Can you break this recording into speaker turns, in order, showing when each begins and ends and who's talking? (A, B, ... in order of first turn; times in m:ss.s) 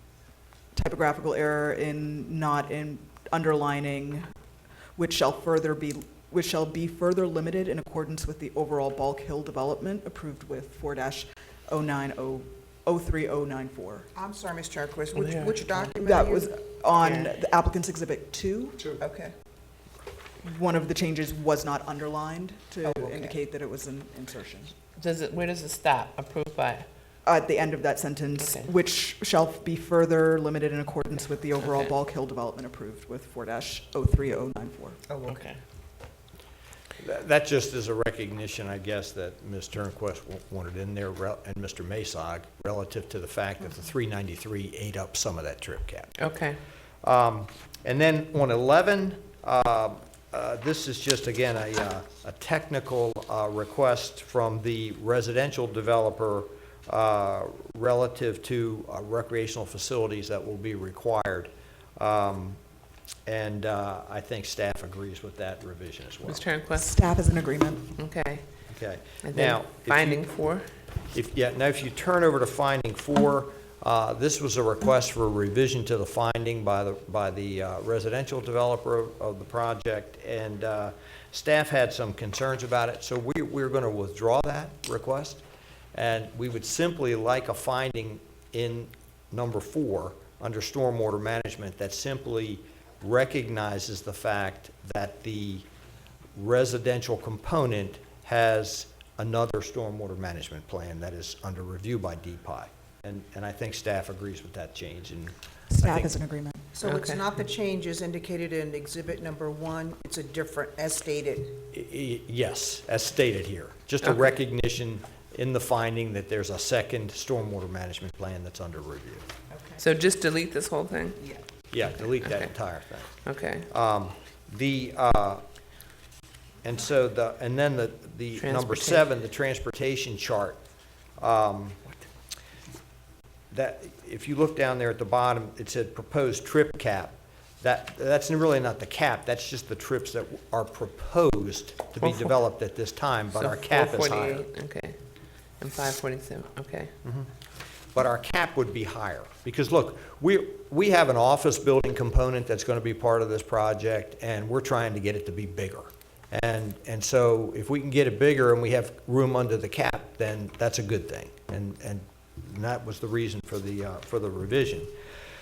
0:00.8-0:04.3 A
0:05.0-0:14.1 A
0:14.2-0:16.5 B
0:15.1-0:15.7 C
0:16.0-0:18.8 A
0:17.0-0:17.3 C
0:19.0-0:19.3 B
0:20.4-0:24.8 A
0:22.8-0:23.4 B
0:25.0-0:26.9 C
0:27.2-0:35.0 A
0:28.4-0:28.7 C
0:31.6-0:31.9 C
0:35.1-0:35.4 B
0:35.2-0:35.6 C
0:37.0-0:46.2 D
0:46.2-0:46.6 C
0:47.0-1:02.6 D
1:03.3-1:06.5 D
1:06.3-1:07.0 C
1:06.8-1:07.9 A
1:08.0-1:08.4 C
1:08.7-1:10.3 D
1:09.2-1:10.7 C
1:11.1-1:25.4 D
1:25.9-1:35.7 D
1:36.4-1:46.2 D
1:45.7-1:46.7 A
1:46.7-1:51.6 B
1:46.8-1:47.2 C
1:51.6-1:59.3 D
1:59.5-1:59.8 B
1:59.8-2:01.2 C
2:01.7-2:05.4 D
2:02.2-2:02.5 C
2:03.2-2:03.7 C
2:06.6-2:10.6 D
2:08.4-2:09.0 C
2:11.2-2:11.8 D
2:13.5-2:24.5 D
2:22.0-2:22.3 C
2:23.4-2:25.0 C
2:25.6-2:26.9 C
2:27.0-2:27.3 D
2:27.9-2:44.9 D